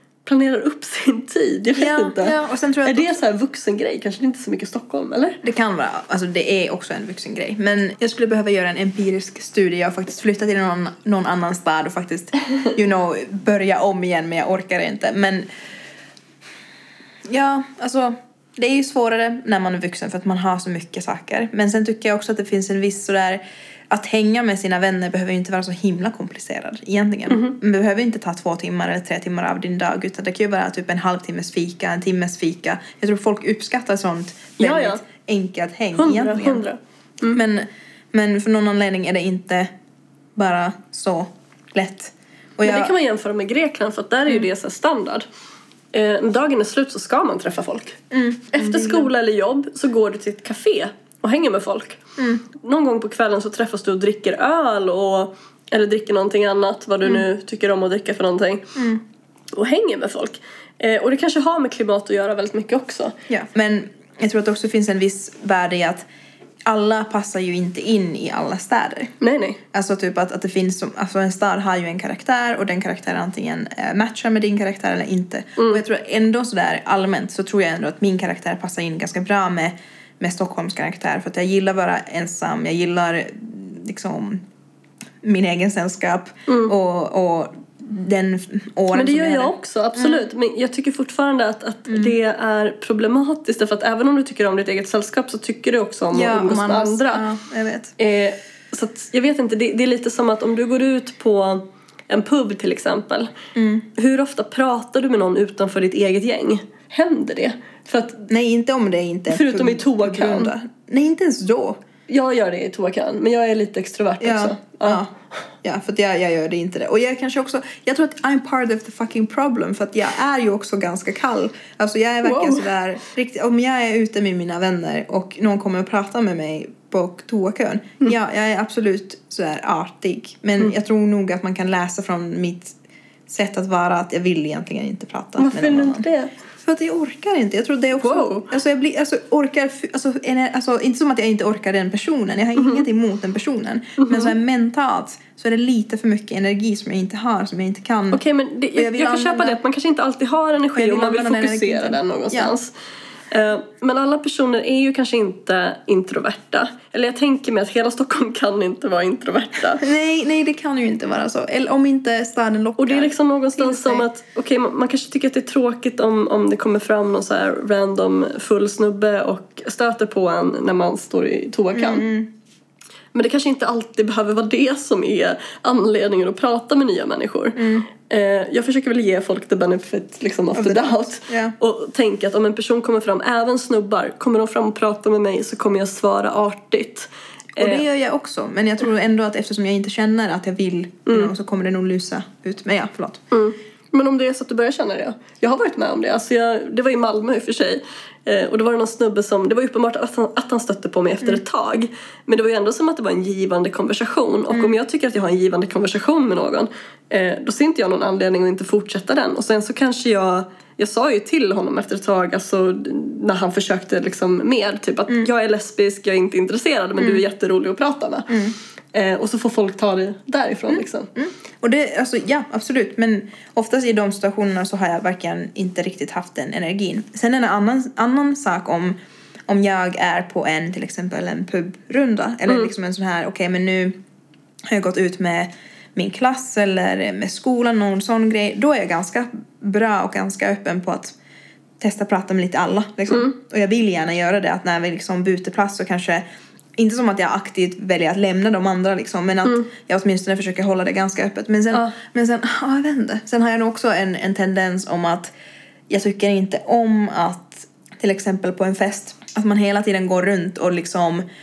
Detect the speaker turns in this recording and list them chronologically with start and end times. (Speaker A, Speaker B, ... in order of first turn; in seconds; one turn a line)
Speaker A: 0.2-5.4
Speaker B: 1.8-3.2
Speaker B: 5.4-15.5
Speaker B: 17.3-36.6
Speaker A: 27.3-27.6
Speaker A: 34.6-35.0
Speaker A: 36.0-37.4
Speaker B: 37.3-39.7
Speaker B: 40.4-42.9
Speaker A: 42.6-45.3
Speaker A: 45.9-48.0
Speaker B: 48.1-49.1
Speaker A: 48.5-52.0
Speaker A: 52.5-58.8
Speaker B: 58.8-59.0
Speaker A: 59.5-63.2
Speaker B: 63.3-66.0
Speaker B: 66.7-69.1
Speaker A: 69.2-69.6
Speaker B: 69.7-84.4
Speaker B: 85.2-90.3
Speaker A: 86.5-86.7
Speaker A: 88.9-97.2
Speaker B: 91.9-92.2
Speaker B: 96.1-97.9
Speaker A: 98.0-103.3
Speaker B: 103.5-103.9
Speaker A: 104.0-108.3
Speaker B: 108.3-111.8
Speaker A: 109.3-110.5
Speaker A: 112.1-115.0
Speaker B: 114.2-115.1
Speaker B: 115.6-132.8
Speaker A: 122.2-122.7
Speaker B: 133.3-136.1
Speaker A: 135.4-136.3
Speaker B: 136.6-148.2
Speaker A: 138.0-138.5
Speaker A: 144.0-144.3
Speaker A: 148.1-152.7
Speaker B: 148.8-149.6
Speaker B: 150.7-152.5
Speaker A: 153.3-159.8
Speaker B: 159.8-164.1
Speaker A: 162.8-172.1
Speaker B: 171.7-172.3
Speaker A: 173.1-187.8
Speaker B: 177.6-177.9
Speaker B: 180.6-181.5
Speaker B: 187.6-193.2
Speaker A: 193.3-218.3
Speaker B: 204.5-204.8
Speaker B: 218.3-218.6
Speaker A: 218.9-221.1
Speaker B: 220.7-229.0
Speaker B: 229.5-234.0
Speaker B: 234.7-241.1
Speaker B: 241.8-246.2
Speaker B: 246.8-255.3
Speaker B: 255.9-261.2